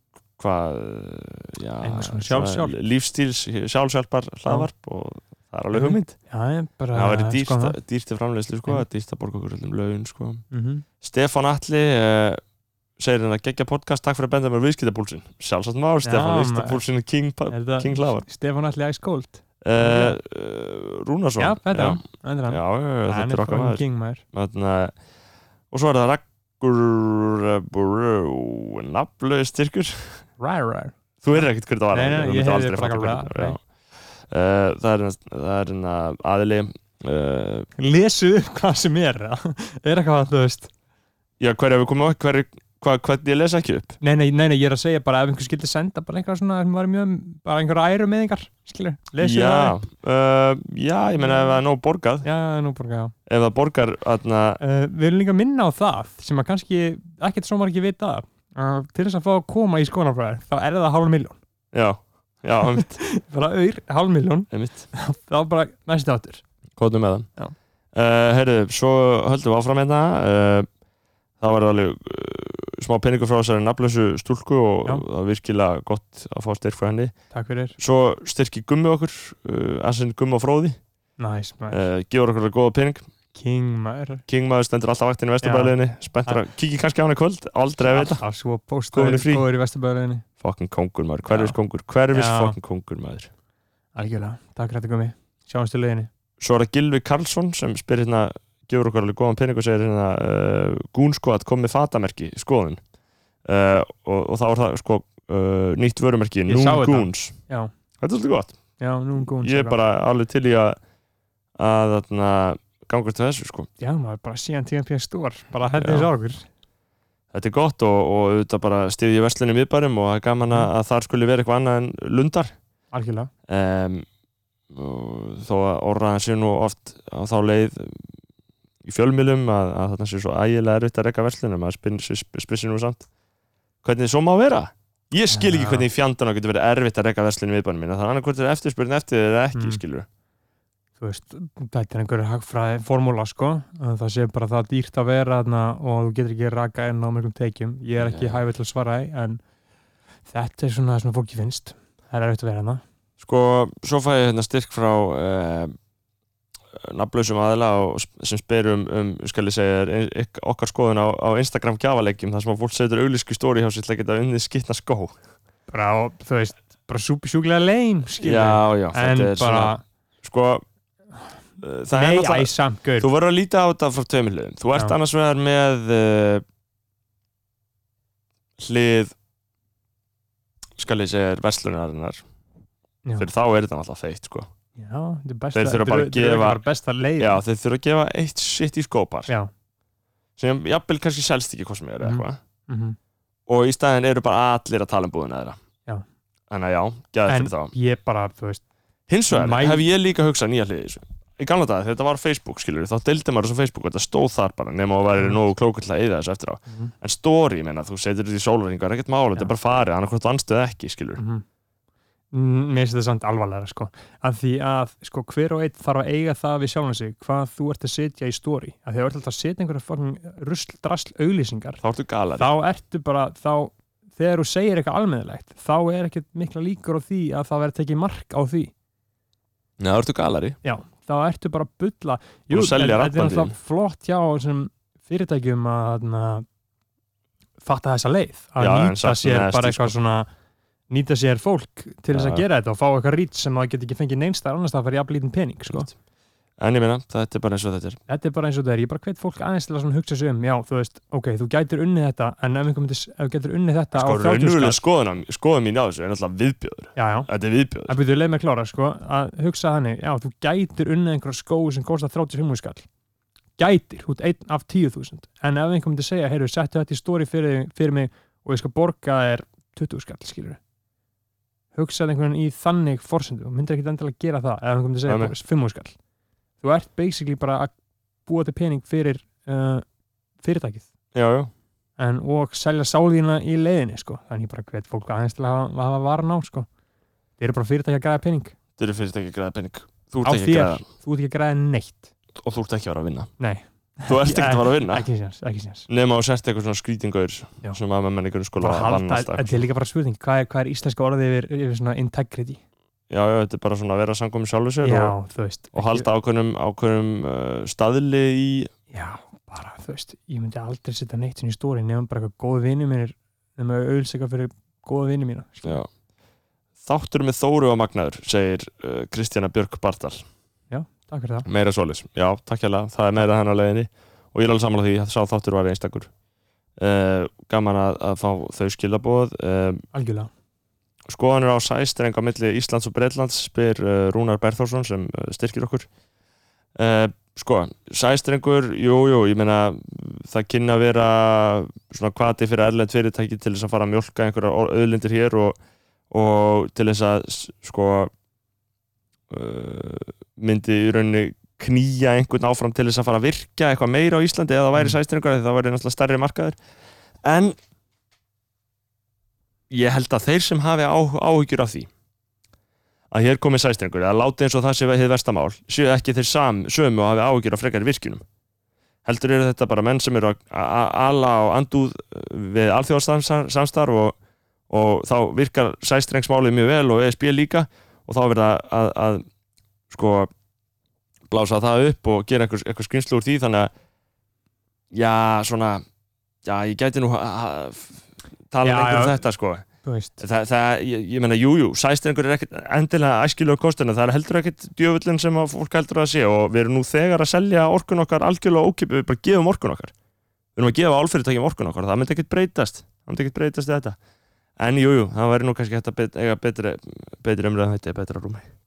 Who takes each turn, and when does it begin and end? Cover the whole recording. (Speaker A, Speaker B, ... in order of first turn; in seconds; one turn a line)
Speaker A: 0.4-6.2
Speaker B: 1.8-2.8
Speaker B: 5.7-7.8
Speaker A: 6.9-10.4
Speaker B: 10.5-10.8
Speaker A: 11.0-12.4
Speaker A: 13.0-18.3
Speaker B: 16.0-16.8
Speaker B: 17.5-20.2
Speaker A: 19.6-24.9
Speaker B: 21.4-24.2
Speaker A: 25.7-30.2
Speaker B: 30.4-33.6
Speaker A: 31.2-33.6
Speaker A: 34.3-37.7
Speaker B: 37.8-40.7
Speaker A: 41.4-44.0
Speaker B: 44.0-49.8
Speaker A: 49.2-52.3
Speaker B: 51.2-51.6
Speaker B: 52.2-53.1
Speaker A: 53.3-54.6
Speaker B: 54.6-61.4
Speaker A: 61.7-63.0
Speaker B: 62.7-66.4
Speaker A: 64.5-64.9
Speaker A: 66.8-67.3
Speaker A: 67.9-70.7
Speaker A: 71.4-77.2
Speaker B: 77.3-77.8
Speaker A: 77.8-80.8
Speaker B: 81.2-81.9
Speaker A: 81.7-83.1
Speaker B: 83.3-84.2
Speaker A: 84.3-88.2
Speaker B: 85.4-86.5
Speaker B: 87.8-90.2
Speaker A: 88.9-89.5
Speaker A: 90.4-93.3
Speaker B: 91.3-91.6
Speaker B: 92.1-92.6
Speaker B: 94.0-96.1
Speaker A: 96.4-102.8
Speaker A: 103.5-107.3
Speaker B: 106.5-107.7
Speaker A: 108.0-108.6
Speaker B: 108.8-109.8
Speaker A: 109.4-110.8
Speaker A: 111.6-113.7
Speaker B: 113.8-116.5
Speaker A: 115.8-116.1
Speaker A: 117.3-122.5
Speaker B: 122.9-123.3
Speaker A: 123.5-124.1
Speaker A: 124.7-128.1
Speaker A: 128.8-133.1
Speaker A: 133.8-140.1
Speaker B: 135.3-135.9
Speaker B: 139.5-139.8
Speaker B: 141.0-149.4
Speaker A: 148.0-148.4
Speaker B: 150.3-152.8
Speaker A: 153.2-155.8
Speaker A: 156.8-165.1
Speaker B: 165.7-169.8
Speaker A: 168.2-170.7
Speaker A: 171.6-176.4
Speaker B: 171.9-173.1
Speaker A: 178.6-179.1
Speaker A: 180.8-182.2
Speaker A: 183.2-184.5
Speaker B: 184.8-187.4
Speaker A: 185.6-186.6
Speaker A: 187.2-189.3
Speaker A: 190.4-192.4
Speaker B: 192.0-193.0
Speaker A: 193.5-195.6
Speaker A: 196.5-197.7
Speaker B: 197.3-198.6
Speaker A: 199.1-211.2
Speaker B: 199.3-199.9
Speaker B: 206.7-206.9
Speaker B: 211.2-211.4
Speaker B: 212.3-221.8
Speaker A: 221.8-222.5
Speaker B: 222.3-228.7
Speaker A: 229.8-230.6
Speaker B: 230.6-236.5
Speaker A: 232.5-233.6
Speaker B: 237.6-240.3
Speaker A: 238.6-239.9
Speaker B: 240.9-245.9
Speaker A: 242.1-242.4
Speaker A: 246.6-248.0
Speaker B: 248.1-254.8
Speaker A: 253.9-258.0
Speaker B: 257.0-257.3
Speaker B: 257.9-262.9
Speaker B: 263.6-270.6
Speaker B: 271.7-276.0
Speaker A: 275.1-275.4
Speaker B: 276.6-277.7
Speaker B: 278.3-279.9
Speaker B: 280.4-280.9
Speaker A: 281.1-281.5
Speaker B: 282.0-286.7
Speaker B: 287.4-288.6
Speaker A: 288.8-290.9
Speaker B: 290.2-292.1
Speaker A: 292.4-293.3
Speaker B: 293.4-295.9
Speaker A: 294.1-295.1
Speaker A: 295.9-299.6
Speaker B: 298.6-302.6
Speaker A: 303.1-305.2
Speaker B: 304.8-306.1
Speaker A: 305.7-308.7
Speaker B: 308.9-315.8
Speaker A: 316.8-320.2
Speaker B: 320.7-321.5
Speaker A: 321.5-326.1
Speaker A: 326.8-329.8
Speaker B: 329.9-330.3
Speaker A: 331.1-335.9
Speaker A: 336.8-345.6
Speaker A: 346.1-348.1
Speaker A: 349.3-356.6
Speaker A: 357.2-357.6
Speaker A: 359.7-361.9
Speaker A: 363.1-368.2
Speaker A: 369.1-374.2
Speaker A: 374.7-379.2
Speaker A: 379.9-380.3
Speaker A: 381.3-383.7
Speaker A: 384.9-385.8
Speaker A: 386.4-389.7
Speaker B: 388.6-390.2
Speaker A: 390.2-399.9
Speaker A: 400.6-404.0
Speaker A: 404.6-408.5